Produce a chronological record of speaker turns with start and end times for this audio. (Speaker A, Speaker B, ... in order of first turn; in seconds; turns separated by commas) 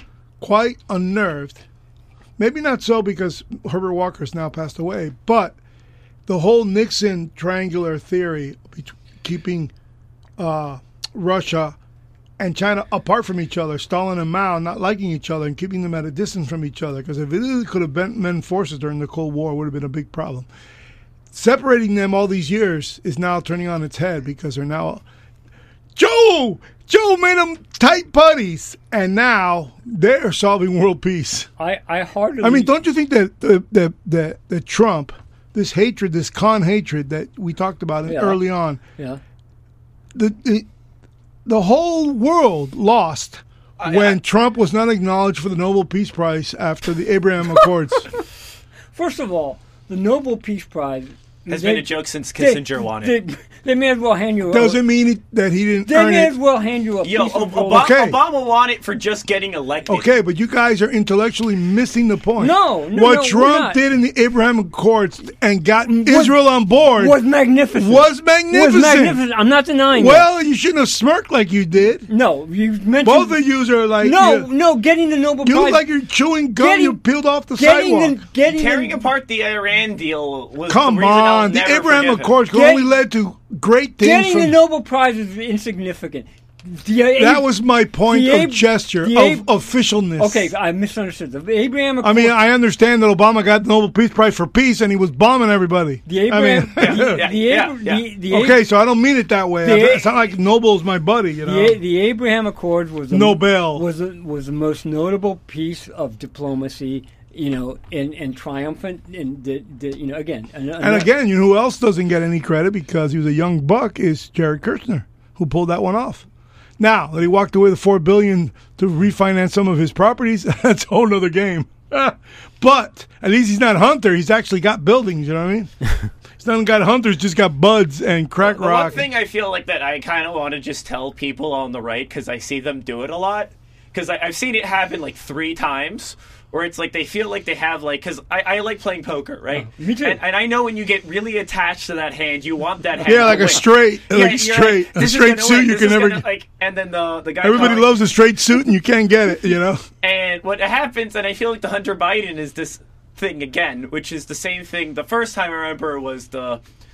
Speaker A: 0.4-1.6, Speaker A: 2.4-5.6, Speaker A: 6.3-9.7, Speaker A: 10.4-11.8, Speaker A: 12.4-20.5, Speaker A: 21.3-25.0, Speaker A: 26.0-31.5, Speaker B: 31.6-32.7, Speaker A: 32.4-38.8, Speaker B: 38.0-38.4, Speaker A: 40.1-40.7, Speaker A: 41.5-48.1, Speaker C: 43.8-44.2, Speaker B: 48.9-54.8, Speaker C: 51.5-53.1, Speaker A: 54.5-56.3, Speaker B: 55.9-57.9, Speaker C: 57.0-60.1, Speaker A: 57.7-58.2, Speaker A: 59.9-67.2, Speaker B: 62.4-63.8, Speaker B: 65.9-66.4, Speaker B: 67.0-70.3, Speaker A: 67.8-69.2, Speaker A: 69.9-72.1, Speaker B: 72.1-73.4, Speaker A: 73.0-74.5, Speaker B: 74.0-75.8, Speaker A: 75.4-78.2, Speaker B: 76.6-77.0, Speaker B: 77.5-79.0, Speaker C: 78.4-82.3, Speaker A: 80.7-84.6, Speaker B: 82.5-82.9, Speaker B: 84.0-87.5, Speaker A: 87.2-90.5, Speaker B: 88.0-89.5, Speaker B: 90.2-92.4, Speaker A: 92.0-97.2, Speaker B: 96.1-98.6, Speaker C: 96.8-98.1, Speaker A: 98.3-101.8, Speaker B: 99.6-100.1, Speaker B: 101.4-111.1, Speaker A: 103.1-103.8, Speaker A: 110.8-116.2, Speaker A: 116.8-125.8, Speaker A: 126.4-129.1, Speaker C: 128.4-147.9, Speaker B: 139.6-140.2, Speaker A: 143.1-146.2, Speaker A: 147.4-149.8, Speaker C: 150.0-156.6